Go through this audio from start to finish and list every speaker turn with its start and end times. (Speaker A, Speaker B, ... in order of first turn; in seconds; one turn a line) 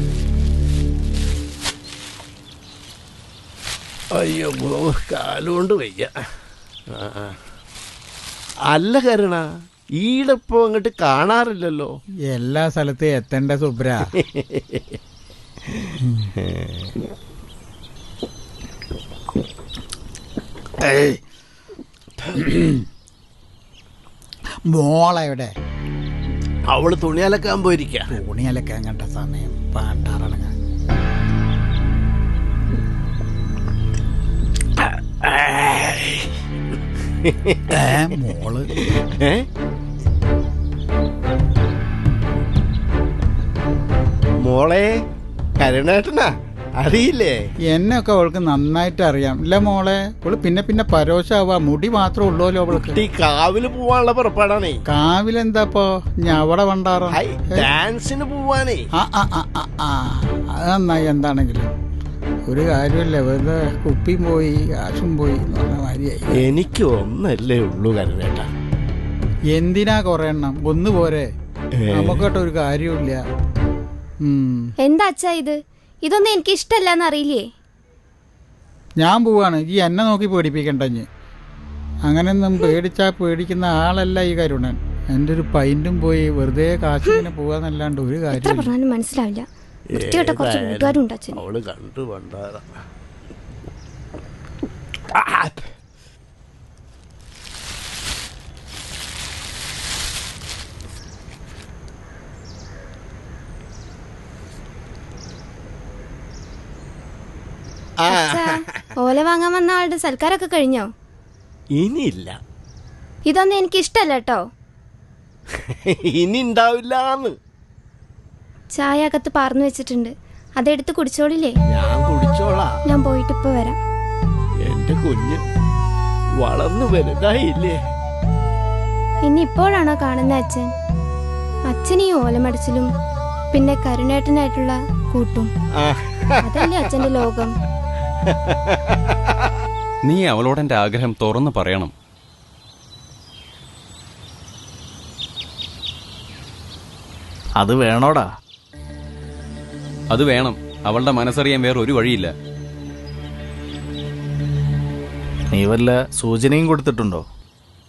Speaker A: 4.2-6.1
Speaker A: 6.9-7.3
Speaker A: 8.7-9.4
Speaker A: 10.0-11.9
Speaker B: 12.3-14.1
Speaker A: 14.2-15.0
Speaker A: 15.7-16.9
Speaker B: 16.0-16.3
Speaker B: 20.8-21.2
Speaker B: 22.4-22.9
Speaker B: 24.7-25.5
Speaker A: 26.7-28.1
Speaker B: 28.1-30.5
Speaker A: 34.8-36.3
Speaker A: 37.1-37.9
Speaker B: 37.7-38.7
Speaker A: 38.9-39.5
Speaker A: 44.4-44.9
Speaker A: 45.6-47.4
Speaker B: 47.7-53.0
Speaker A: 52.7-54.8
Speaker B: 54.9-57.7
Speaker A: 57.1-58.8
Speaker B: 59.0-61.7
Speaker B: 62.5-66.5
Speaker A: 66.3-68.5
Speaker B: 69.5-71.3
Speaker A: 71.8-72.3
Speaker B: 71.9-73.2
Speaker B: 74.2-74.7
Speaker C: 74.8-77.5
Speaker B: 79.0-81.1
Speaker B: 82.1-88.7
Speaker C: 88.3-91.4
Speaker A: 89.9-92.7
Speaker A: 95.1-95.6
Speaker A: 108.1-108.6
Speaker C: 108.1-110.9
Speaker A: 111.8-112.4
Speaker C: 113.3-114.5
Speaker A: 115.7-117.3
Speaker C: 118.7-121.5
Speaker A: 121.7-122.7
Speaker C: 122.9-123.8
Speaker A: 124.6-125.4
Speaker A: 126.4-127.8
Speaker C: 129.3-130.7
Speaker C: 131.7-132.9
Speaker C: 133.5-135.5
Speaker A: 135.8-137.2
Speaker C: 136.4-137.5
Speaker A: 138.3-139.3
Speaker D: 140.1-141.9
Speaker E: 147.6-148.3
Speaker D: 150.1-152.3
Speaker E: 155.5-157.2